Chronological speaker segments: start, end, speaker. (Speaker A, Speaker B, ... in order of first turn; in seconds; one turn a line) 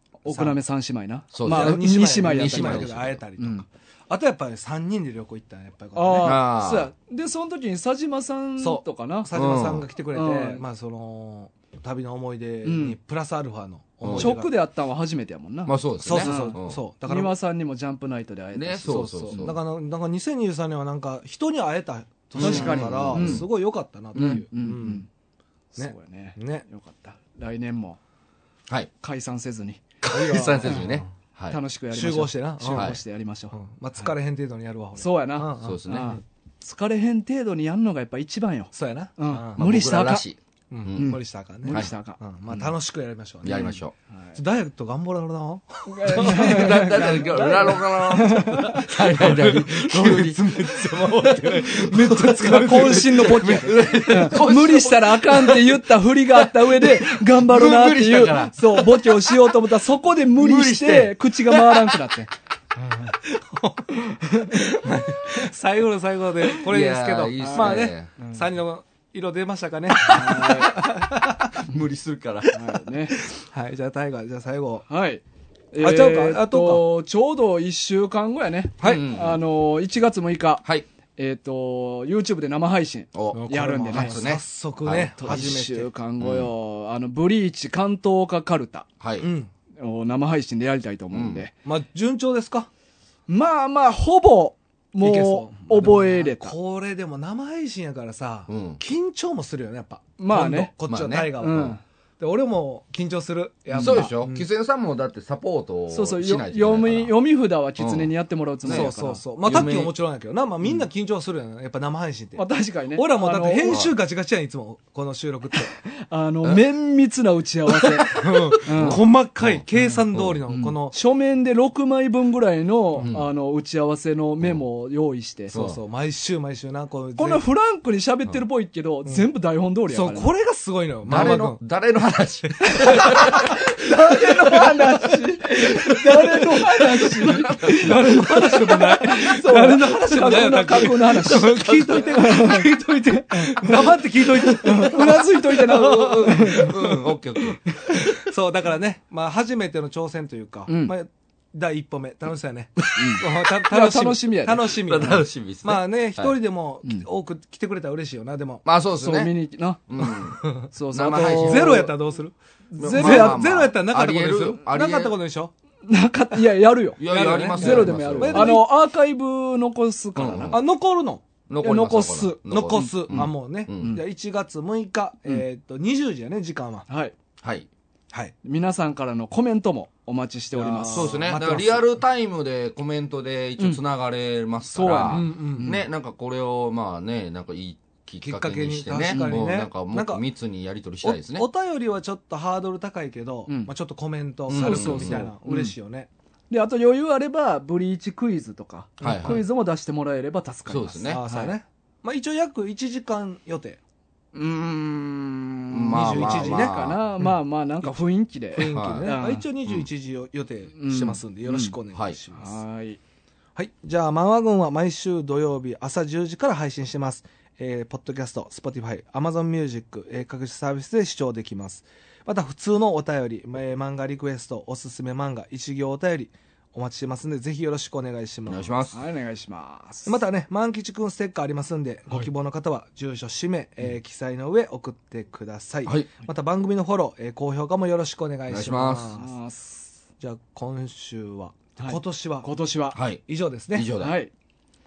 Speaker A: 0.2-3.6
Speaker B: 0.2-0.6
Speaker C: 1.3-3.2
Speaker B: 1.4-6.4
Speaker A: 5.9-9.3
Speaker C: 6.2-6.9
Speaker B: 8.6-14.5
Speaker C: 9.3-9.8
Speaker A: 10.1-10.6
Speaker A: 12.6-13.0
Speaker C: 14.0-14.3
Speaker A: 14.1-19.5
Speaker C: 15.7-16.8
Speaker B: 16.0-17.3
Speaker C: 18.5-19.6
Speaker B: 18.9-25.1
Speaker C: 22.3-23.4
Speaker A: 22.4-23.5
Speaker C: 24.1-24.4
Speaker A: 24.1-25.1
Speaker A: 25.7-28.0
Speaker B: 25.8-26.6
Speaker A: 29.0-30.9
Speaker C: 30.0-31.6
Speaker B: 30.1-31.1
Speaker A: 31.5-34.1
Speaker B: 31.9-33.0
Speaker B: 33.5-36.1
Speaker A: 35.0-40.2
Speaker C: 35.6-36.2
Speaker B: 38.7-39.6
Speaker C: 39.5-41.9
Speaker B: 40.7-43.8
Speaker A: 41.0-42.6
Speaker C: 43.4-43.9
Speaker A: 43.5-44.4
Speaker B: 44.3-47.7
Speaker A: 45.9-48.9
Speaker C: 46.1-55.8
Speaker B: 48.7-53.5
Speaker A: 51.9-62.3
Speaker C: 56.3-59.4
Speaker C: 60.4-62.0
Speaker B: 62.8-71.6
Speaker C: 66.6-68.1
Speaker A: 67.4-68.5
Speaker A: 70.0-70.8
Speaker C: 71.5-72.6
Speaker A: 72.5-73.2
Speaker B: 73.3-74.8
Speaker A: 74.9-80.6
Speaker B: 75.8-76.8
Speaker C: 78.8-79.4
Speaker A: 81.2-84.2
Speaker C: 83.1-85.5
Speaker B: 83.3-85.9
Speaker A: 85.2-88.9
Speaker C: 86.2-86.5
Speaker C: 89.0-89.3
Speaker B: 89.2-89.5
Speaker A: 89.8-91.5
Speaker C: 91.1-91.5
Speaker B: 91.6-92.7
Speaker A: 93.3-96.5
Speaker B: 95.0-104.5
Speaker C: 98.5-98.8
Speaker A: 100.2-100.7
Speaker C: 100.8-101.7
Speaker A: 101.4-101.8
Speaker A: 103.7-104.1
Speaker C: 103.8-107.2
Speaker A: 105.9-109.2
Speaker C: 107.8-108.1
Speaker C: 108.6-108.9
Speaker B: 108.7-115.7
Speaker C: 109.4-109.9
Speaker A: 112.3-113.9
Speaker A: 115.8-119.0
Speaker C: 117.7-120.4
Speaker B: 118.1-120.9
Speaker A: 119.7-125.5
Speaker C: 123.0-123.3
Speaker B: 125.5-127.4
Speaker C: 125.5-125.8
Speaker A: 127.2-130.3
Speaker B: 129.9-131.6
Speaker C: 131.1-133.6
Speaker A: 131.1-131.4
Speaker A: 132.6-142.7
Speaker B: 133.0-133.3
Speaker C: 135.5-138.4
Speaker B: 137.6-147.1
Speaker C: 141.3-142.0
Speaker A: 143.3-143.8
Speaker C: 144.3-144.9
Speaker A: 144.6-146.8
Speaker C: 145.7-147.6
Speaker B: 147.9-158.6
Speaker A: 150.7-150.9
Speaker A: 152.9-154.7
Speaker C: 154.7-156.3
Speaker C: 158.6-159.3
Speaker A: 159.0-160.1
Speaker C: 159.9-161.9
Speaker B: 160.4-160.7
Speaker A: 160.7-161.9
Speaker B: 161.3-165.5
Speaker A: 162.8-163.5
Speaker C: 162.8-165.2
Speaker A: 165.8-167.0
Speaker C: 167.0-168.6
Speaker B: 167.0-168.7
Speaker A: 167.5-170.6
Speaker C: 170.2-170.6
Speaker B: 170.5-171.2
Speaker C: 171.5-173.9
Speaker A: 171.6-174.0
Speaker B: 172.5-176.9
Speaker A: 176.9-177.1
Speaker C: 177.4-177.7
Speaker A: 178.4-181.3
Speaker B: 180.5-181.9
Speaker C: 180.9-191.4
Speaker A: 184.7-185.9
Speaker B: 185.0-185.8
Speaker B: 188.2-190.2
Speaker B: 191.0-196.1
Speaker C: 194.5-195.3
Speaker A: 194.6-195.7
Speaker A: 196.5-201.5
Speaker B: 199.0-199.3
Speaker C: 199.0-199.4
Speaker C: 200.7-201.2
Speaker B: 201.0-203.8
Speaker A: 204.3-209.4
Speaker C: 205.7-207.0
Speaker B: 205.9-207.3
Speaker B: 208.5-212.6
Speaker C: 208.7-209.1
Speaker A: 210.8-211.8
Speaker A: 212.3-213.0
Speaker B: 213.6-228.7
Speaker C: 228.4-229.0
Speaker A: 228.9-230.2
Speaker B: 230.1-239.3
Speaker C: 238.5-239.2
Speaker A: 239.2-239.9
Speaker B: 240.2-242.5
Speaker A: 241.8-243.0
Speaker C: 242.9-243.2
Speaker B: 243.2-243.9
Speaker C: 243.7-244.2
Speaker A: 244.0-244.3